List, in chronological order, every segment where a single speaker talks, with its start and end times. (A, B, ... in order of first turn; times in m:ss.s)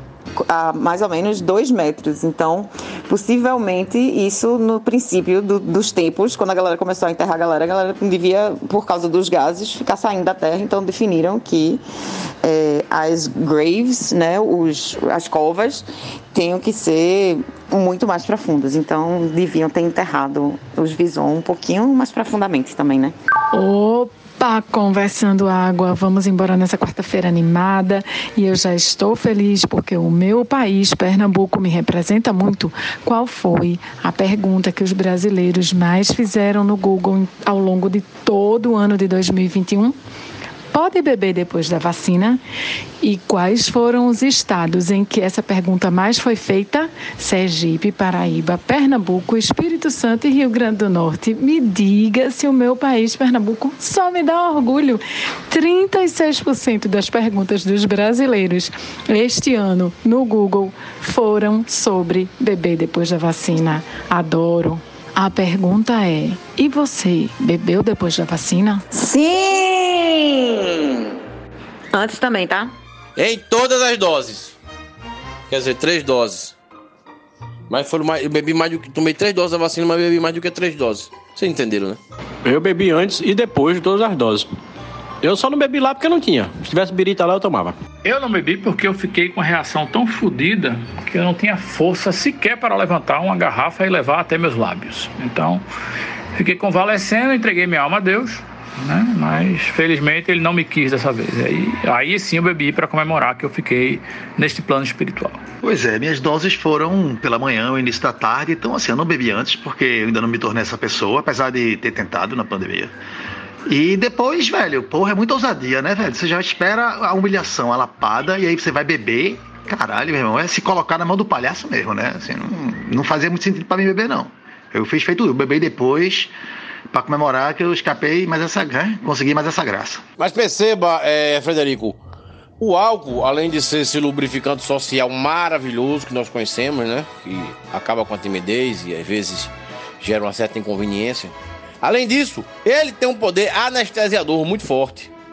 0:00.4-0:11.8 A
0:12.4-0:23.1 A
0:23.5-0:40.0 B
0:40.7-0:42.4 B
0:43.0-1:08.8 B
1:08.9-1:11.2 A
1:11.9-1:12.7 A
1:13.2-1:14.6 C
1:15.5-1:16.6 C
1:17.7-1:22.0 C
1:22.4-1:24.5 D
1:25.2-1:27.8 D
1:28.0-1:35.6 E
1:36.4-1:45.4 E
1:45.6-1:52.9 F
1:53.7-2:06.3 F
2:06.9-2:10.0 F
2:10.2-2:12.0 C
2:12.6-2:25.1 C